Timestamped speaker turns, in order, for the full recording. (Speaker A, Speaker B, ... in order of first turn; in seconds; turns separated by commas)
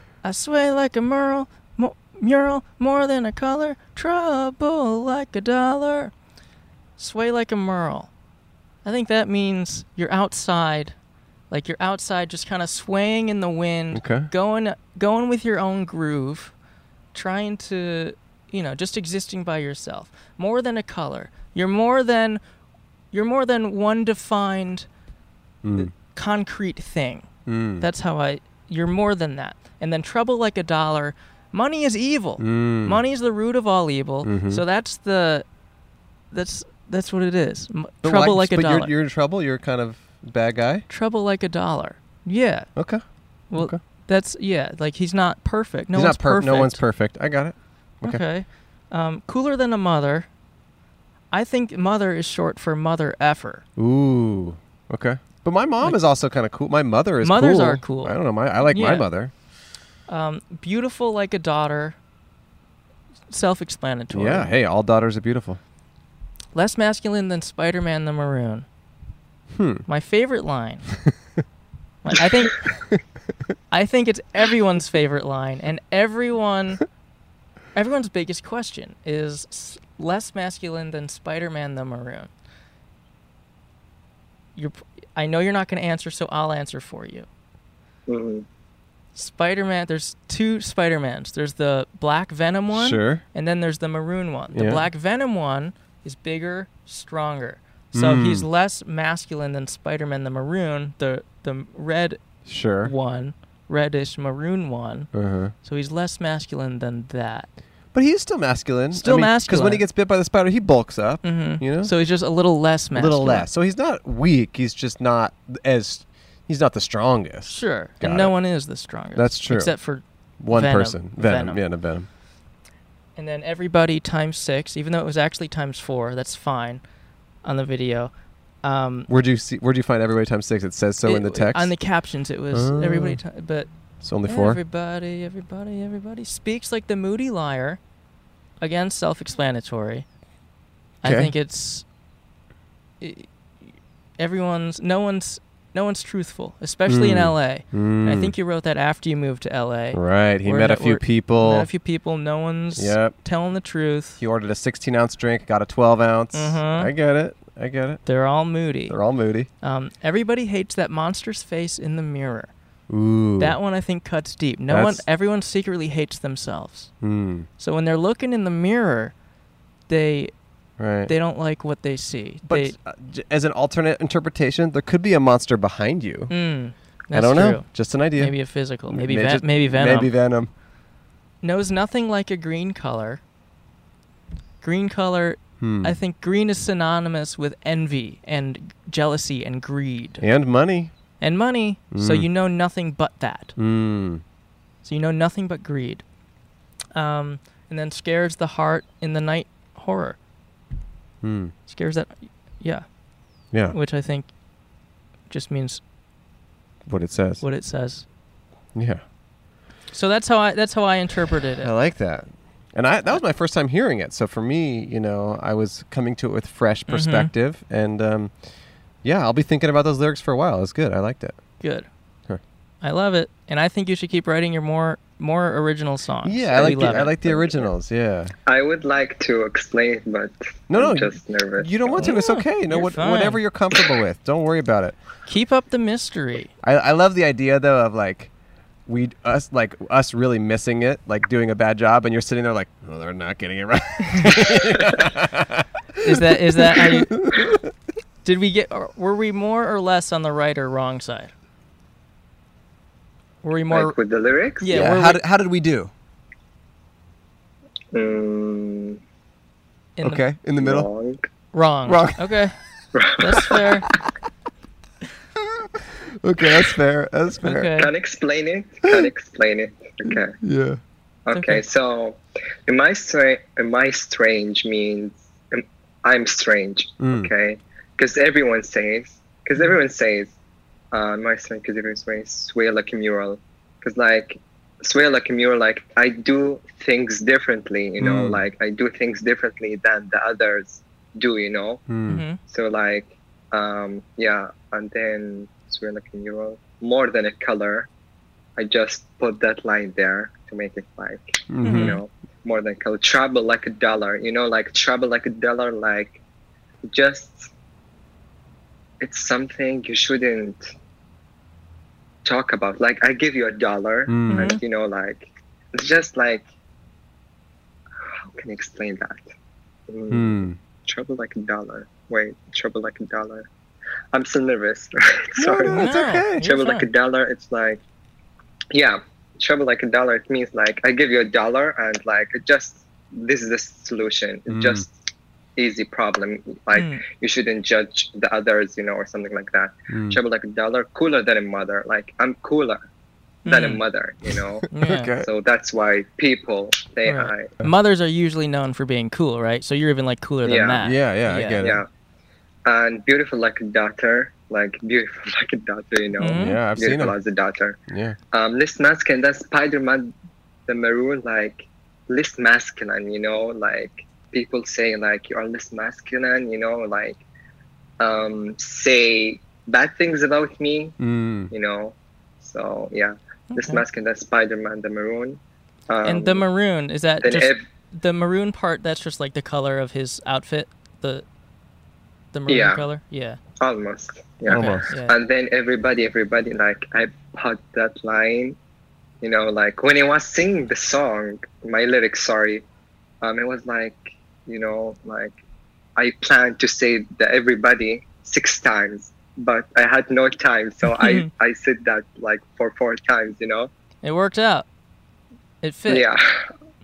Speaker A: 0.2-6.1, Speaker A: 7.0-8.1, Speaker A: 8.8-10.9, Speaker A: 11.5-16.5, Speaker B: 13.9-14.3, Speaker A: 17.1-22.4, Speaker A: 23.1-24.9, Speaker B: 25.6-25.9, Speaker A: 25.8-27.3, Speaker B: 27.5-27.9, Speaker A: 27.8-35.5, Speaker B: 32.4-33.0, Speaker B: 34.2-34.6, Speaker A: 36.3-38.9, Speaker B: 38.0-40.9, Speaker A: 40.9-42.7, Speaker B: 42.8-43.0, Speaker A: 43.5-46.8, Speaker B: 43.5-43.8, Speaker B: 46.0-48.2, Speaker A: 48.0-50.3, Speaker A: 51.3-53.6, Speaker B: 53.8-59.3, Speaker A: 57.2-59.1, Speaker A: 60.1-62.0, Speaker A: 63.3-64.5, Speaker B: 64.1-65.6, Speaker A: 66.5-68.7, Speaker B: 69.5-69.8, Speaker A: 69.9-70.9, Speaker A: 72.0-72.7, Speaker A: 73.7-76.8, Speaker A: 77.8-82.3, Speaker A: 84.6-87.3, Speaker C: 88.1-88.5, Speaker A: 89.2-102.2, Speaker B: 92.7-93.2, Speaker B: 94.5-94.8, Speaker B: 97.9-98.5, Speaker B: 102.5-102.9, Speaker A: 102.8-105.1, Speaker B: 105.1-105.5, Speaker A: 105.6-107.5, Speaker B: 107.9-111.9, Speaker A: 108.9-109.8, Speaker A: 111.2-113.5, Speaker B: 113.0-118.3, Speaker A: 117.5-121.6, Speaker B: 119.2-119.7, Speaker B: 120.4-122.1, Speaker A: 123.2-126.8, Speaker A: 127.4-128.1, Speaker A: 128.6-129.1, Speaker B: 129.1-131.7, Speaker A: 131.0-133.7, Speaker B: 132.5-133.2, Speaker B: 134.0-134.6, Speaker A: 134.3-137.8, Speaker A: 138.6-140.1, Speaker A: 141.0-141.8, Speaker B: 141.0-141.3, Speaker A: 143.0-143.3, Speaker A: 144.2-154.2, Speaker B: 146.9-148.3, Speaker B: 149.9-151.7, Speaker B: 152.8-153.2, Speaker B: 154.2-158.0, Speaker A: 156.3-156.9, Speaker A: 158.1-159.0, Speaker B: 158.9-159.5, Speaker A: 159.6-162.5, Speaker B: 162.9-163.6, Speaker A: 163.4-166.9, Speaker B: 164.7-165.0, Speaker B: 167.0-167.5, Speaker A: 167.6-169.1, Speaker A: 169.9-170.3, Speaker B: 170.8-171.1, Speaker A: 171.1-172.8, Speaker B: 172.5-176.3, Speaker A: 176.3-180.1, Speaker B: 177.1-178.4, Speaker B: 178.9-180.5, Speaker A: 181.4-183.2, Speaker A: 184.6-190.2, Speaker B: 185.6-185.9, Speaker B: 190.2-190.9, Speaker A: 191.2-193.6, Speaker B: 191.9-192.3, Speaker B: 193.6-194.2, Speaker A: 194.8-196.0, Speaker A: 196.9-200.2, Speaker B: 201.2-201.5, Speaker A: 201.7-202.9, Speaker A: 203.7-204.3, Speaker A: 205.3-205.8, Speaker B: 206.9-207.4, Speaker A: 207.4-208.1, Speaker B: 208.8-209.0, Speaker A: 209.9-211.7, Speaker B: 211.6-218.3, Speaker A: 216.9-217.3, Speaker B: 219.0-221.4, Speaker A: 221.6-221.9, Speaker A: 222.8-227.2, Speaker B: 226.2-228.3, Speaker C: 226.6-227.7, Speaker C: 228.5-232.1, Speaker B: 230.7-235.0, Speaker A: 232.0-233.4, Speaker A: 235.3-236.5, Speaker B: 236.6-238.3, Speaker B: 238.9-247.7, Speaker A: 244.1-244.4, Speaker A: 246.0-247.2, Speaker A: 248.2-251.3, Speaker A: 253.4-253.9, Speaker C: 253.7-254.8, Speaker A: 254.6-255.2, Speaker B: 254.7-255.9, Speaker C: 257.9-259.0, Speaker A: 260.0-260.2, Speaker B: 260.0-260.9, Speaker C: 260.6-261.3, Speaker A: 261.5-262.5, Speaker B: 261.9-262.3, Speaker C: 262.9-263.6, Speaker A: 263.2-263.9, Speaker B: 265.6-267.7, Speaker A: 267.4-267.9, Speaker C: 267.8-270.4, Speaker B: 270.1-270.8, Speaker C: 271.3-280.3, Speaker A: 271.3-271.6, Speaker B: 277.0-277.3, Speaker C: 280.9-291.8, Speaker B: 288.0-288.4, Speaker B: 291.9-292.2, Speaker A: 292.1-292.4, Speaker C: 292.4-297.9, Speaker C: 298.6-306.2, Speaker B: 301.5-302.0, Speaker A: 301.6-302.0, Speaker C: 306.9-307.5, Speaker C: 309.0-310.7, Speaker C: 312.2-316.5, Speaker B: 314.1-314.5, Speaker A: 314.3-314.6, Speaker C: 318.2-319.2, Speaker C: 319.9-323.5, Speaker B: 320.1-320.6, Speaker C: 324.1-327.8, Speaker B: 325.4-326.4, Speaker A: 325.7-326.9, Speaker C: 328.7-334.9, Speaker B: 334.5-334.9, Speaker C: 335.6-342.8, Speaker A: 336.8-337.0, Speaker B: 339.9-340.2, Speaker A: 343.4-343.8, Speaker C: 343.4-347.5, Speaker B: 344.3-345.3, Speaker A: 344.7-345.1, Speaker A: 347.1-351.6, Speaker C: 350.4-350.8, Speaker B: 350.8-351.8, Speaker C: 351.6-351.9, Speaker C: 352.6-357.8, Speaker A: 356.2-356.6, Speaker B: 356.4-357.1, Speaker B: 357.9-358.2, Speaker C: 358.3-360.1, Speaker C: 360.7-367.2, Speaker C: 368.0-371.0, Speaker B: 371.0-371.5, Speaker C: 371.5-376.4, Speaker A: 373.5-373.8, Speaker A: 376.1-381.2, Speaker C: 377.2-377.6, Speaker A: 382.3-383.4, Speaker C: 382.5-382.9, Speaker C: 383.6-388.6, Speaker B: 384.5-384.9, Speaker A: 384.5-385.1, Speaker C: 389.2-392.6, Speaker C: 393.2-395.4, Speaker C: 396.0-403.7, Speaker A: 400.9-401.3, Speaker A: 404.0-404.7, Speaker A: 405.6-406.1, Speaker C: 405.9-406.5